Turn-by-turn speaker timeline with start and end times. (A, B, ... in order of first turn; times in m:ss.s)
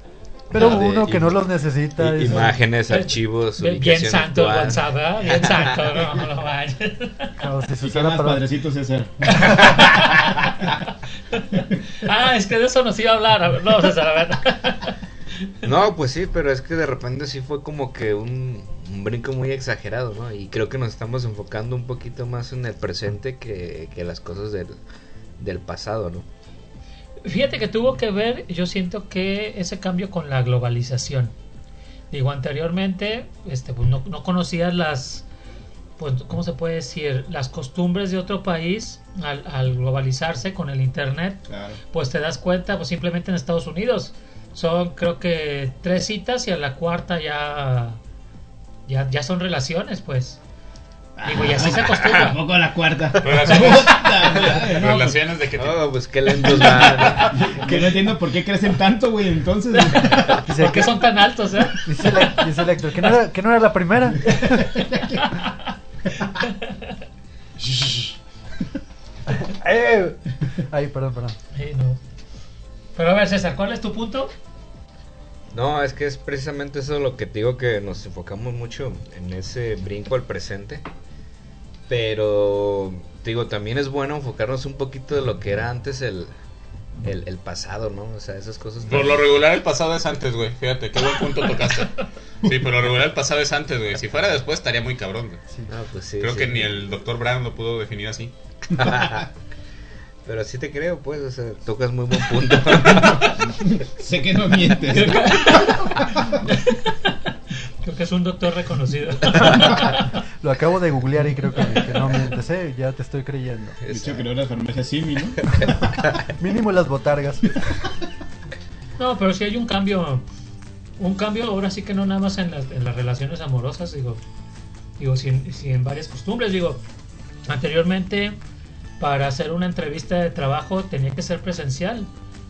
0:00.5-0:01.4 A
0:00.5-0:02.6 B
0:02.0-0:06.0 A
0:02.9-0:07.3 C
0:07.4-0:08.4 B
0:07.8-0:10.7 D
0:09.4-0:10.7 C
0:11.3-0:14.9 C
0:15.6-0:24.8 A
0:25.4-0:26.3 A
0:27.2-0:31.3 C
0:32.1-0:35.3 C
0:36.0-0:48.0 C
0:41.5-0:41.8 D
0:48.9-0:50.4 C
0:51.2-0:55.2 D
0:51.2-0:52.4 C
0:53.2-0:55.9 E
0:55.5-0:57.6 A
0:56.4-1:00.5 D
0:56.5-0:57.1 E
1:00.4-1:01.0 B
1:00.4-1:02.3 C
1:01.8-1:04.8 B
1:04.5-1:05.4 D
1:06.2-1:06.9 C
1:07.7-1:08.0 D
1:09.3-1:11.4 B
1:11.5-1:12.0 C
1:13.0-1:14.3 C
1:15.5-1:20.8 A
1:21.9-1:26.3 A
1:27.0-1:29.3 A
1:28.8-1:35.4 E
1:35.7-1:36.7 A
1:36.2-1:38.3 E
1:38.7-1:39.3 A
1:40.2-1:43.4 A
1:42.9-1:46.4 D
1:44.8-1:47.3 C
1:47.8-1:50.1 C
1:50.4-1:53.8 B
1:53.8-1:54.3 A
1:53.9-1:55.4 D
1:56.2-1:57.6 B
1:59.0-2:00.2 C
2:01.0-2:04.2 C
2:05.0-2:06.8 C
2:07.5-2:08.4 C
2:09.0-2:12.1 C